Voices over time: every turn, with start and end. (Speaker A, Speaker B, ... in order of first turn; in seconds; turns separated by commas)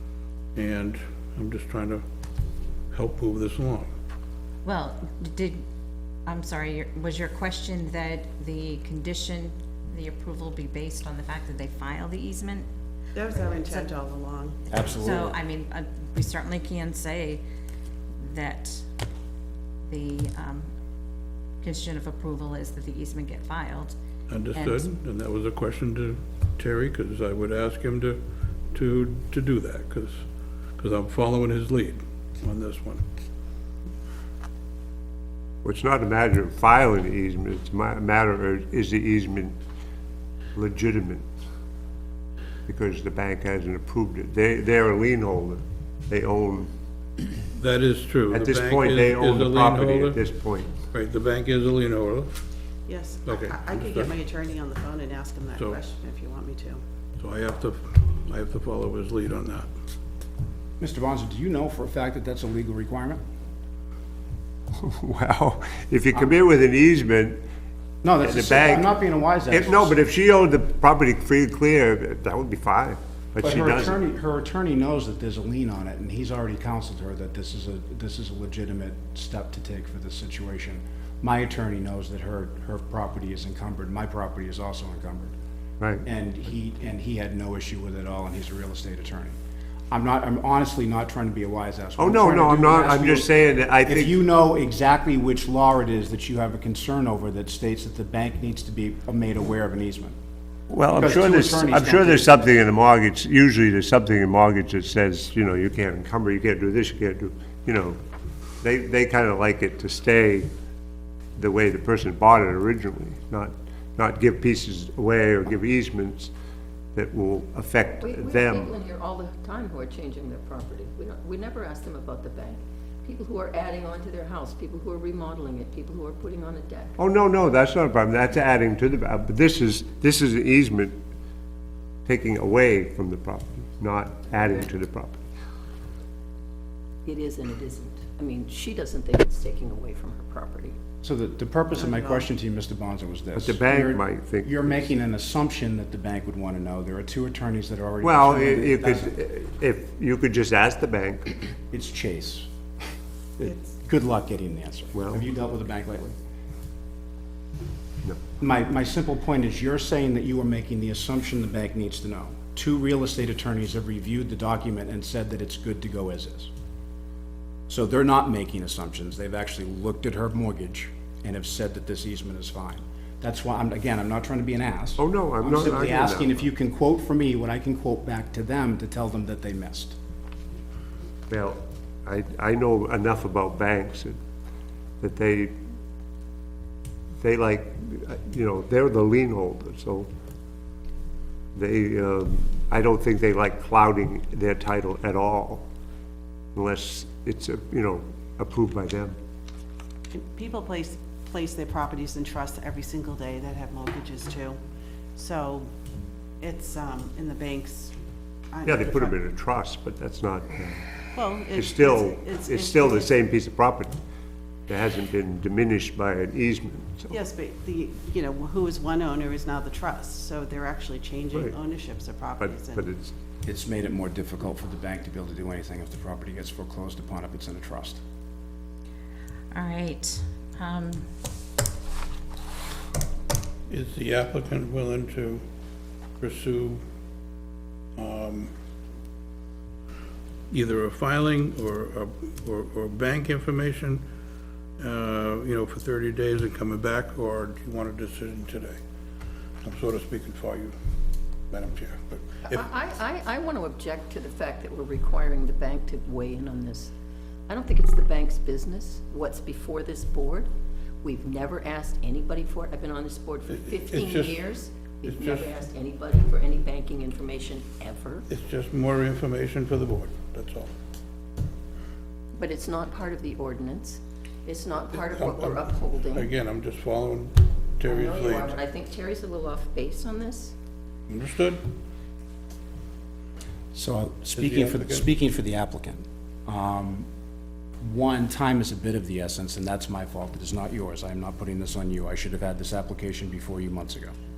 Speaker A: 0.6-2.0, Speaker A: 2.9-3.9, Speaker B: 4.6-5.6, Speaker B: 6.3-12.7, Speaker C: 13.1-14.6, Speaker B: 13.3-13.9, Speaker D: 14.7-15.4, Speaker B: 14.9-17.4, Speaker B: 18.2-18.8, Speaker B: 19.9-20.7, Speaker B: 21.6-23.9, Speaker A: 24.3-28.2, Speaker B: 24.5-25.0, Speaker A: 28.7-33.0, Speaker E: 35.6-39.6, Speaker E: 40.5-41.3, Speaker E: 42.7-46.7, Speaker A: 47.5-50.2, Speaker E: 48.3-50.7, Speaker A: 50.9-52.3, Speaker C: 52.9-56.8, Speaker A: 53.2-54.1, Speaker A: 57.2-59.7, Speaker D: 60.8-63.2, Speaker E: 64.8-67.4, Speaker D: 68.0-70.0, Speaker E: 68.2-68.9, Speaker E: 69.5-74.0, Speaker D: 73.4-85.3, Speaker D: 86.0-89.3, Speaker D: 89.9-100.2, Speaker E: 92.0-94.2, Speaker E: 100.7-108.0, Speaker D: 100.9-102.5, Speaker E: 108.6-110.5, Speaker E: 111.4-116.3, Speaker E: 117.0-118.8, Speaker F: 118.0-127.0, Speaker E: 127.0-131.0, Speaker E: 132.1-135.2, Speaker F: 137.1-140.8, Speaker D: 141.0-149.2, Speaker E: 143.4-144.9, Speaker E: 148.0-151.3, Speaker D: 151.7-152.5, Speaker D: 153.8-156.2, Speaker E: 154.9-155.2, Speaker D: 158.4-166.5, Speaker D: 167.7-180.0, Speaker E: 175.0-176.4, Speaker E: 181.3-184.2, Speaker E: 185.0-185.6, Speaker E: 187.2-190.1, Speaker E: 191.6-195.7, Speaker E: 196.6-199.2, Speaker C: 200.1-204.6, Speaker C: 205.2-205.7, Speaker C: 206.4-208.0, Speaker C: 208.5-209.2, Speaker E: 208.7-210.8, Speaker C: 211.1-213.2, Speaker E: 211.5-214.0, Speaker E: 214.7-217.2, Speaker C: 217.1-222.9, Speaker E: 221.3-221.6, Speaker E: 222.4-223.1, Speaker D: 223.4-228.0, Speaker B: 229.5-231.1, Speaker A: 233.7-235.4, Speaker A: 236.2-236.8, Speaker A: 238.0-238.5, Speaker A: 240.5-244.0, Speaker A: 244.8-248.8, Speaker A: 249.6-250.7, Speaker A: 251.5-252.6, Speaker F: 252.5-256.9, Speaker F: 257.5-260.5, Speaker F: 261.0-268.3, Speaker A: 263.5-264.4, Speaker A: 265.1-265.6, Speaker A: 268.3-270.7, Speaker F: 272.4-276.3, Speaker A: 274.9-278.6, Speaker F: 277.9-280.6, Speaker A: 281.1-281.7, Speaker D: 283.7-287.1, Speaker A: 284.4-285.1, Speaker D: 287.8-294.1